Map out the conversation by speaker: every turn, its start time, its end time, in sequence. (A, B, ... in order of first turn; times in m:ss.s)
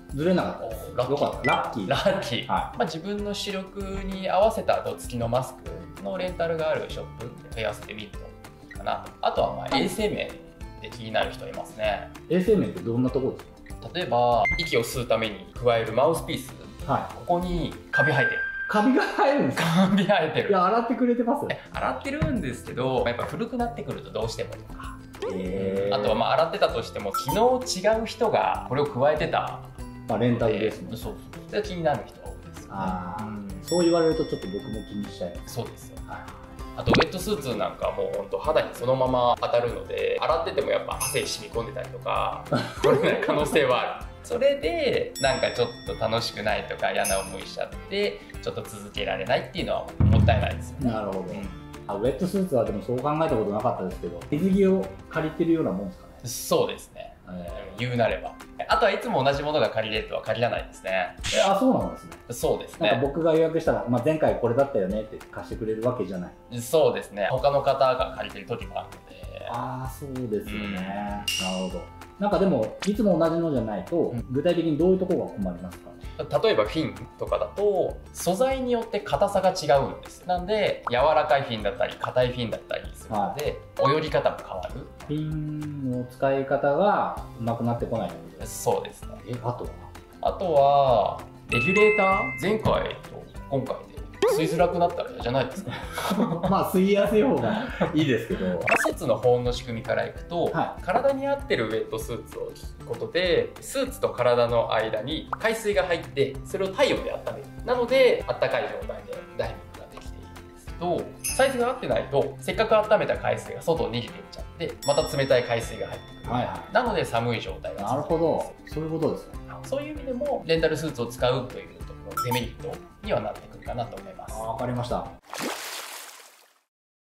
0:00.1-0:02.7 A
0:00.6-0:12.1 B
0:12.3-0:13.6 A
0:13.8-0:18.5 B
0:16.8-0:17.1 A
0:18.7-0:19.8 A
0:19.6-0:20.6 B
0:20.5-0:21.6 A
0:21.5-0:25.0 B
0:25.2-0:26.2 A
0:25.6-0:29.7 B
0:30.1-0:31.2 A
0:30.3-0:33.6 B
0:32.7-0:36.3 A
0:35.5-0:36.0 B
0:36.8-0:51.6 B
0:42.6-0:43.5 A
0:50.8-0:56.2 A
0:56.2-1:01.3 B
0:57.3-0:57.8 A
1:01.3-1:02.2 A
1:02.3-1:03.0 B
1:02.8-1:06.4 A
1:06.5-1:09.6 B
1:09.5-1:16.0 A
1:10.5-1:11.3 B
1:16.2-1:25.1 B
1:23.1-1:23.4 A
1:25.1-1:28.5 A
1:28.4-1:29.2 B
1:29.2-1:29.9 A
1:30.2-1:36.5 B
1:36.0-1:38.7 A
1:38.6-1:58.6 B
1:56.3-1:56.7 A
1:57.8-1:59.4 A
1:59.5-2:04.4 B
2:04.3-2:05.1 A